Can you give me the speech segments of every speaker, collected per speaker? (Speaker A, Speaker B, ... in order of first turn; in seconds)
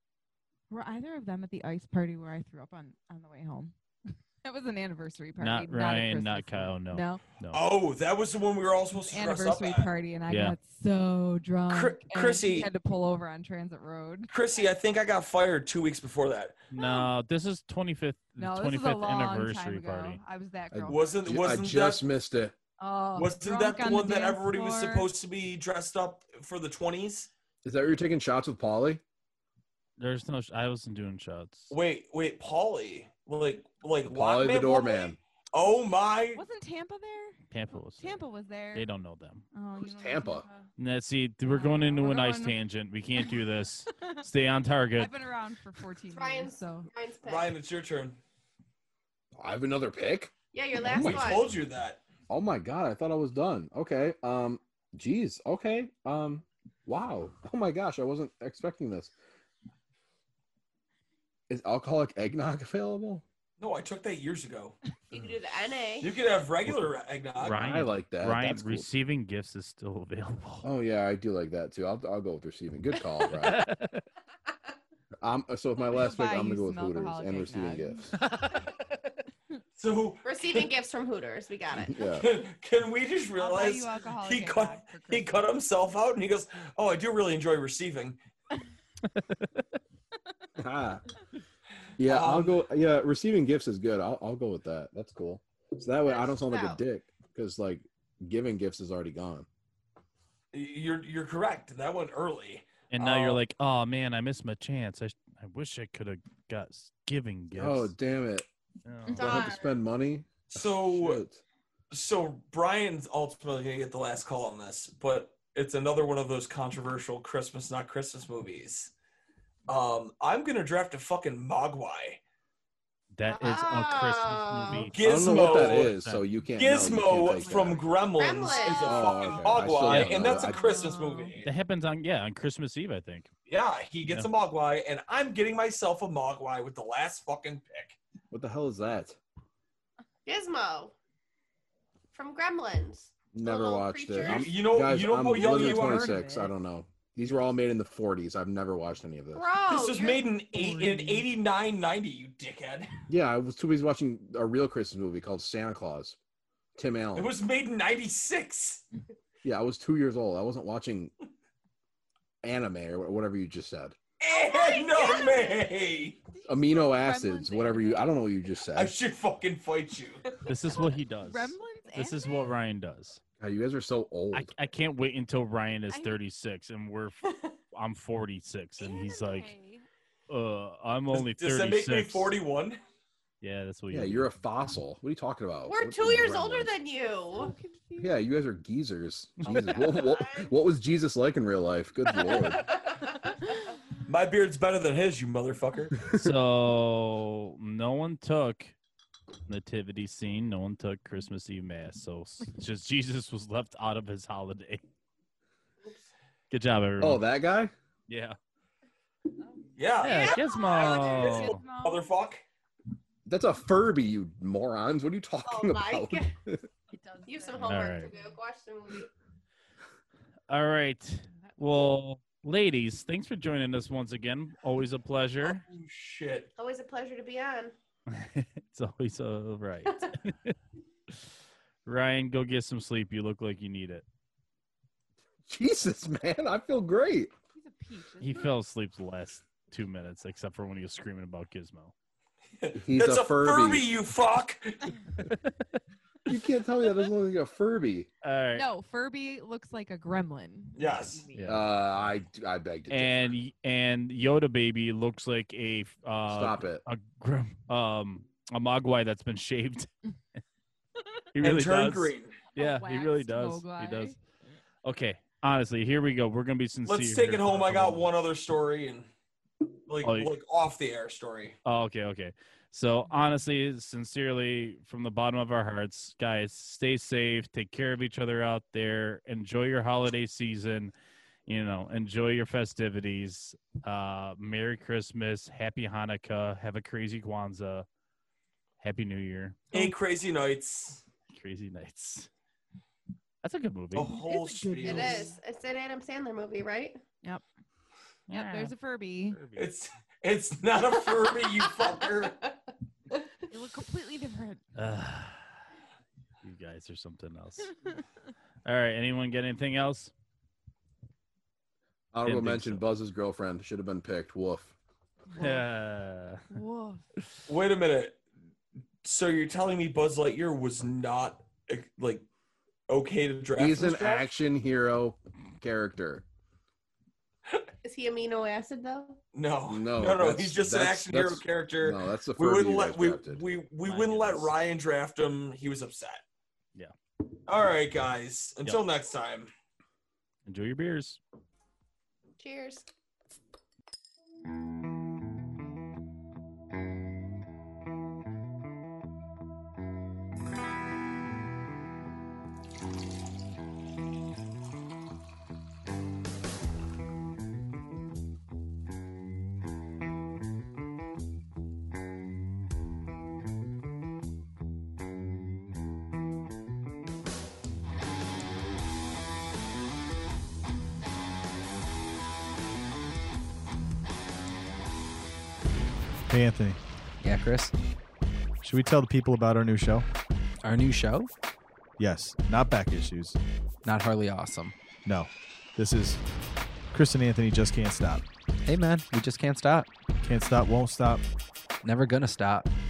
Speaker A: 0.7-7.2, 9.0-14.3, 16.8-17.1, 18.4-21.5, 22.8-25.1, 36.4-38.9, 39.5-40.7, 41.5-42.6, 44.0-44.2, 45.0-46.9, 75.9-78.1, 83.4-85.4, 126.8-129.3, 130.4-131.3, 145.3-146.5, 150.5-151.2, 164.9-165.3, 166.3-168.2, 170.8-172.5, 175.9-176.2, 178.8-179.9, 187.3-188.2, 189.5-190.0, 209.4-212.2, 216.9-218.4, 221.3-221.9, 237.5-238.6, 248.6-251.7, 262.6-264.2, 294.0-295.4, 298.3-299.4, 303.5-304.6, 315.3-315.7, 316.5-317.1
Speaker B: 5.4-7.6, 10.3-10.6, 16.7-20.2, 30.0-31.7, 37.5-39.5, 40.8-45.1, 67.4-70.7, 73.3-74.0, 78.1-79.0, 89.2-89.5, 102.9-107.9, 108.8-109.2, 123.1-126.3, 129.9-130.3, 131.4-133.3, 150.7-151.1, 170.5-173.2, 174.3-179.5, 180.3-182.3, 183.4-184.3, 196.1-198.8, 199.5-204.8, 206.5-207.2, 208.1-208.4, 210.0-211.6, 217.6-218.1, 220.5-225.6, 228.1-230.6, 231.9-234.1, 238.2-241.9, 245.2-245.7, 248.2-248.7, 251.3-251.7, 252.9-259.9, 261.4-264.1, 264.8-268.1, 270.0-270.3, 271.6-280.9, 281.5-287.9, 288.8-289.9, 291.3-292.3, 293.4-294.1, 298.3-298.7, 299.3-299.7, 304.8-305.6, 306.4-307.8, 308.6-310.1, 312.2-312.8, 315.4-316.4, 333.8-334.5, 340.5-341.2
Speaker C: 7.5-9.9, 11.7-12.7, 14.3-16.6, 20.9-22.1, 23.1-27.3, 31.7-36.4, 47.2-48.2, 50.9-52.0, 63.6-64.8, 66.0-67.6, 79.8-80.7, 82.2-88.2, 92.0-92.6, 100.5-103.4, 110.5-111.2, 111.9-118.9, 119.7-122.2, 124.9-125.9, 126.6-131.5, 133.5-138.0, 144.2-146.3, 149.7-152.9, 157.2-158.8, 164.2-166.2, 168.7-170.4, 181.1-182.8, 194.1-196.0, 209.8-212.4, 225.4-226.5, 242.6-245.0, 250.8-251.3, 261.4-262.4, 266.9-269.1, 269.9-271.6, 289.7-291.0, 293.9-295.3, 299.6-302.4, 317.5-318.2, 319.0-322.3, 322.9-324.3, 329.3-336.2, 337.5-339.5
Speaker D: 20.7-22.6, 27.6-29.0, 34.1-35.2, 39.8-40.5, 49.4-51.5, 52.3-59.1, 61.5-63.2, 67.5-68.9, 70.6-73.7, 75.2-78.1, 81.8-82.3, 90.6-91.0, 92.0-99.5, 107.5-108.5, 109.2-111.4, 125.0-127.8, 128.8-130.6, 138.3-139.2, 143.3-149.5, 153.1-156.2, 156.8-157.3, 159.4-161.1, 162.4-164.0, 166.5-168.9, 173.4-174.5, 183.9-186.7, 188.0-192.7, 196.0-196.3, 207.0-207.7, 213.3-216.7, 235.5-237.3, 242.8-243.9, 246.3-248.1, 251.5-253.3, 256.3-256.8, 312.1-314.8, 323.6-326.2, 329.7-333.4
Speaker E: 46.1-47.6, 50.5-51.6, 65.1-66.2, 80.2-82.1, 96.0-96.8, 109.1-109.8, 123.3-124.9, 128.1-129.6, 140.3-140.9, 142.1-144.7, 149.3-150.3, 164.3-165.6, 170.3-170.6, 177.3-177.5, 185.7-187.5, 189.5-190.5, 192.1-193.4, 215.4-216.3, 217.3-219.1, 226.6-227.8, 294.8-297.0, 300.9-302.6, 327.8-329.2, 342.4-342.9
Speaker F: 376.3-376.8, 378.6-380.1, 382.0-383.4, 385.1-386.2, 386.9-388.2, 390.2-391.2
Speaker G: 377.2-377.7, 380.6-381.3, 383.9-384.8, 388.7-389.9, 391.8-392.7